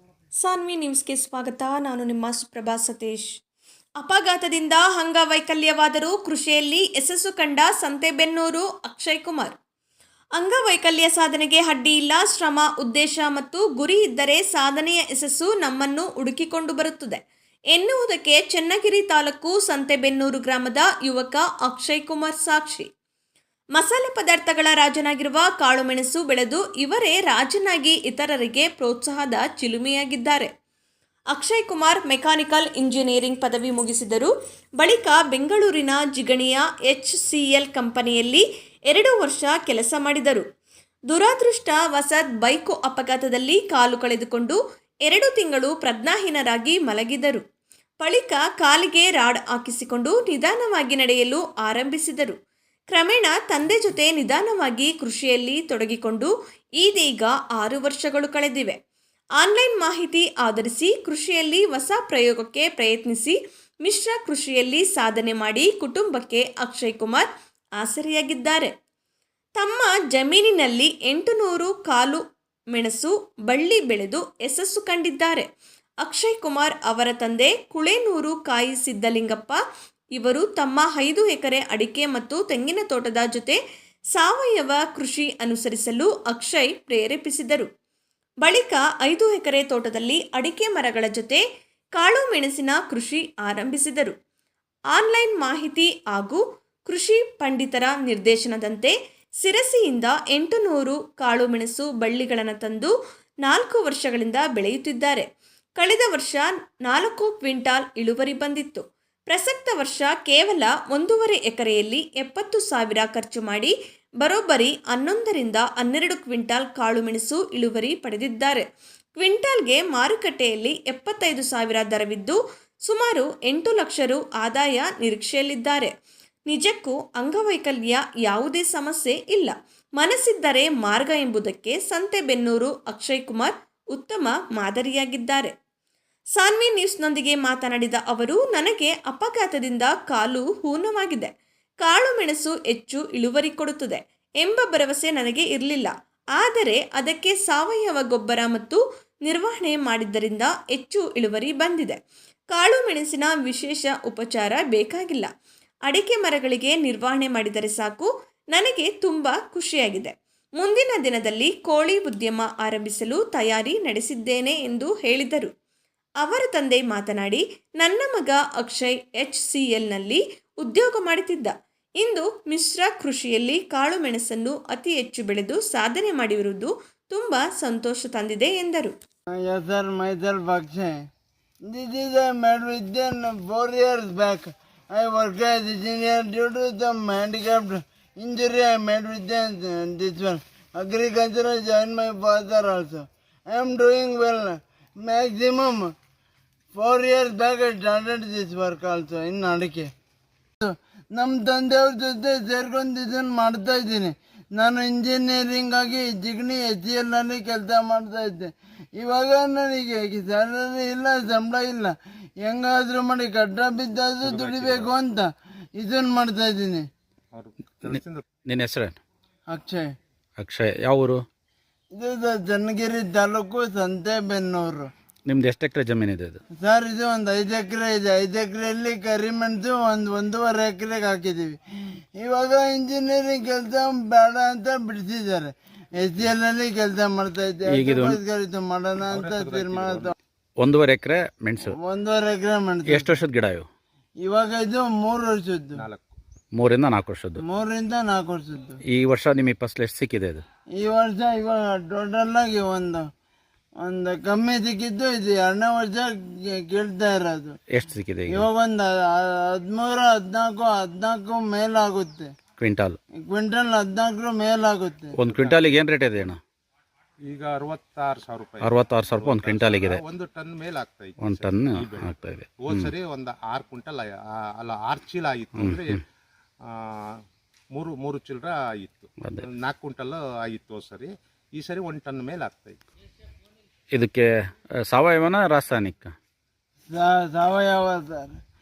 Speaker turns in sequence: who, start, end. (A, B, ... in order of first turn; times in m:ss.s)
0:00.4-0:03.3 A
0:04.0-0:09.5 A
0:10.4-0:17.2 A
0:17.7-0:22.9 A
0:23.8-0:30.5 A
0:31.3-0:40.4 A
0:41.1-0:47.4 A
0:48.0-0:52.4 A
0:52.9-0:58.8 A
0:59.4-1:07.3 A
1:07.8-1:08.7 A
1:09.6-1:12.2 A
1:12.7-1:15.5 A
1:16.0-1:19.6 A
1:20.1-1:23.6 A
1:24.1-1:27.7 A
1:28.4-1:31.4 A
1:32.0-1:34.1 A
1:34.9-1:42.9 A
1:43.4-1:45.2 A
1:45.8-1:58.6 A
1:59.2-2:05.9 A
2:06.5-2:15.5 A
2:16.4-2:21.3 A
2:21.8-2:32.0 A
2:32.5-2:35.3 A
2:35.9-2:45.5 A
2:46.2-2:58.9 A
2:59.4-3:01.0 B
3:01.7-3:15.9 B
3:16.7-3:19.9 B
3:20.6-3:36.8 B
3:34.2-3:34.9 C
3:37.3-3:38.2 C
3:37.8-3:39.0 D
3:39.5-3:39.9 B
3:40.4-3:41.2 D
3:41.9-3:44.9 B
3:45.2-3:46.4 D
3:46.6-4:00.1 B
3:57.7-3:58.2 D
3:59.1-4:00.1 C
4:00.6-4:01.7 D
4:01.7-4:03.1 B
4:02.9-4:03.7 D
4:04.2-4:05.8 B
4:05.8-4:06.1 C
4:06.5-4:07.4 D
4:07.4-4:08.8 B
4:08.9-4:10.4 D
4:10.8-4:13.1 B
4:13.8-4:17.6 B
4:17.7-4:18.5 D
4:18.3-4:22.3 B
4:22.6-4:23.0 D
4:23.2-4:25.2 B
4:25.2-4:26.4 D
4:25.3-4:25.6 C
4:27.2-4:36.0 C
4:28.6-4:30.0 D
4:31.2-4:32.9 D
4:35.6-4:35.9 D
4:36.6-4:37.1 C
4:37.7-4:42.8 C
4:43.9-4:44.3 D
4:44.8-4:46.1 D
4:46.9-4:48.4 B